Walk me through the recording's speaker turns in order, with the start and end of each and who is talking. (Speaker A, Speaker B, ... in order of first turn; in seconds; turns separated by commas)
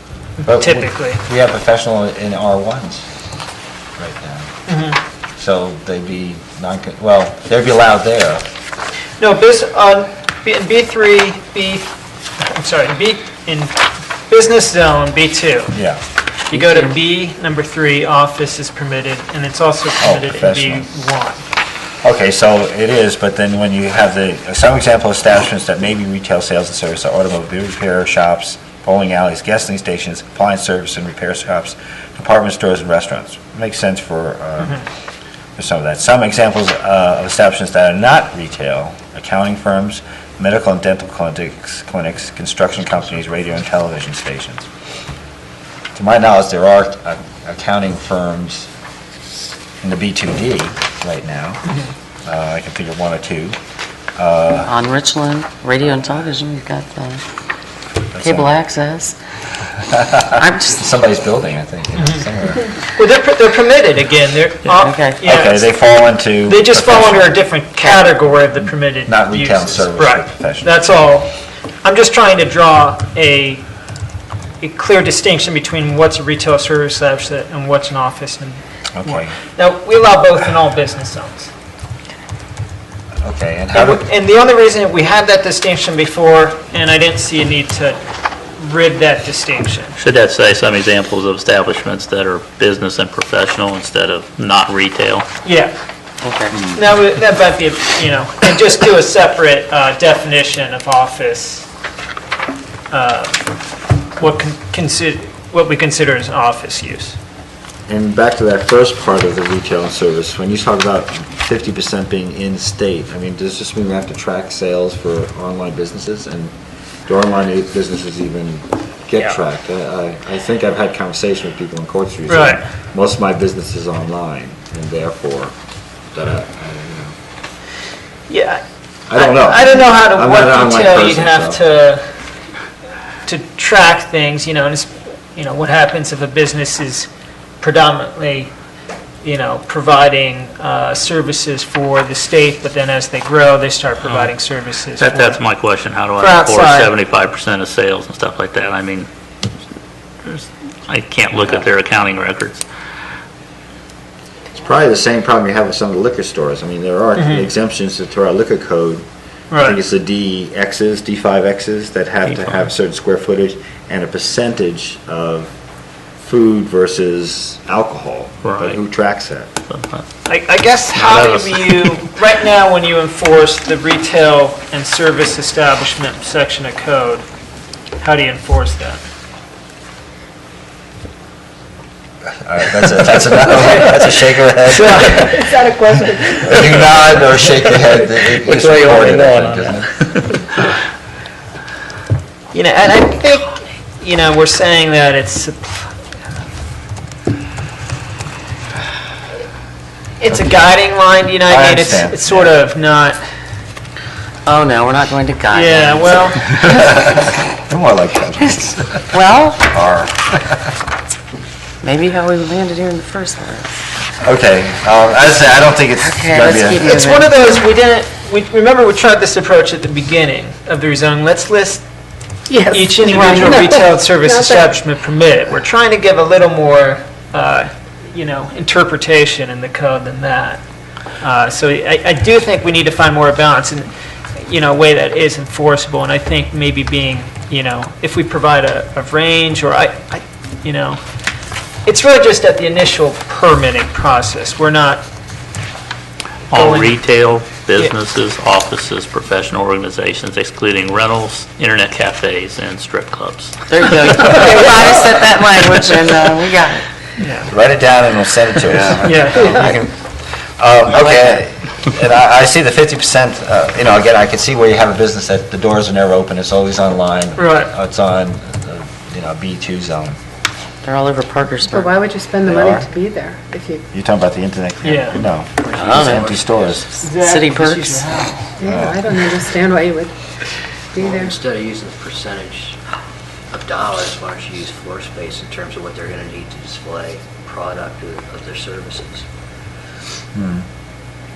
Speaker A: 0.4-1.2, Speaker B: 0.5-3.1, Speaker B: 4.0-4.5, Speaker A: 4.7-5.0, Speaker B: 5.4-8.4, Speaker A: 9.2-13.8, Speaker A: 14.3-15.8, Speaker B: 15.7-16.0, Speaker A: 16.5-21.4, Speaker B: 20.0-20.9, Speaker B: 22.0-34.9, Speaker B: 35.6-44.7, Speaker B: 46.0-48.7, Speaker B: 49.8-51.6, Speaker B: 52.3-53.6, Speaker B: 54.2-54.7, Speaker C: 54.6-57.2, Speaker B: 58.1-58.5, Speaker C: 58.2-59.2, Speaker B: 59.9-62.7, Speaker C: 60.4-60.8, Speaker A: 62.0-62.2, Speaker A: 62.8-65.7, Speaker C: 64.7-65.2, Speaker B: 65.2-67.4, Speaker A: 66.5-71.3, Speaker B: 69.1-70.9, Speaker A: 71.8-73.7, Speaker A: 74.6-81.5, Speaker B: 79.0-79.3, Speaker B: 83.2-84.1, Speaker A: 83.7-88.0, Speaker A: 88.6-90.0, Speaker D: 90.0-95.3, Speaker A: 95.4-95.7, Speaker C: 96.2-96.5, Speaker A: 96.7-101.7, Speaker A: 102.9-103.5, Speaker A: 104.2-107.2, Speaker B: 107.9-116.5, Speaker B: 117.1-125.5, Speaker A: 122.3-122.6, Speaker B: 126.1-127.2, Speaker A: 128.3-128.6, Speaker B: 129.1-131.6, Speaker A: 129.1-132.0, Speaker A: 133.3-137.1, Speaker A: 137.6-138.5, Speaker A: 139.2-145.4, Speaker D: 144.0-144.3, Speaker D: 145.0-149.1, Speaker A: 146.2-146.9, Speaker D: 150.2-152.6, Speaker B: 154.5-159.1, Speaker A: 157.2-157.5, Speaker A: 159.5-159.8, Speaker B: 159.6-165.5, Speaker D: 162.3-162.7, Speaker B: 166.2-169.5, Speaker D: 168.4-168.8, Speaker D: 169.7-170.1, Speaker A: 170.3-177.2, Speaker D: 170.9-171.9, Speaker A: 178.0-179.0, Speaker B: 182.4-185.5, Speaker A: 184.9-185.4, Speaker E: 185.4-186.4, Speaker B: 186.4-190.0, Speaker D: 188.5-189.7, Speaker A: 192.5-196.0, Speaker A: 200.2-203.2, Speaker B: 201.5-202.5, Speaker C: 204.5-206.8, Speaker A: 205.5-206.4, Speaker B: 206.6-209.1, Speaker C: 209.1-209.7, Speaker B: 209.6-210.7, Speaker C: 211.8-213.8, Speaker B: 214.2-216.9, Speaker C: 216.0-217.3, Speaker A: 216.8-221.8, Speaker E: 222.5-224.7, Speaker A: 222.7-230.6, Speaker A: 231.2-241.0, Speaker A: 241.8-245.1, Speaker D: 246.5-254.5, Speaker A: 246.5-247.0, Speaker C: 253.7-256.9, Speaker A: 257.2-257.5, Speaker B: 257.5-270.2, Speaker A: 259.0-259.6, Speaker C: 260.9-261.4, Speaker A: 267.4-267.7, Speaker C: 270.8-271.9, Speaker E: 271.7-273.9, Speaker B: 272.4-272.9, Speaker B: 273.9-276.9, Speaker A: 274.8-275.2, Speaker F: 275.6-276.8, Speaker C: 275.7-276.3, Speaker A: 277.0-278.5, Speaker C: 277.0-278.2, Speaker E: 278.6-280.1, Speaker B: 278.6-279.1, Speaker E: 280.9-281.4, Speaker F: 281.0-282.8, Speaker F: 283.5-289.2, Speaker B: 290.4-290.6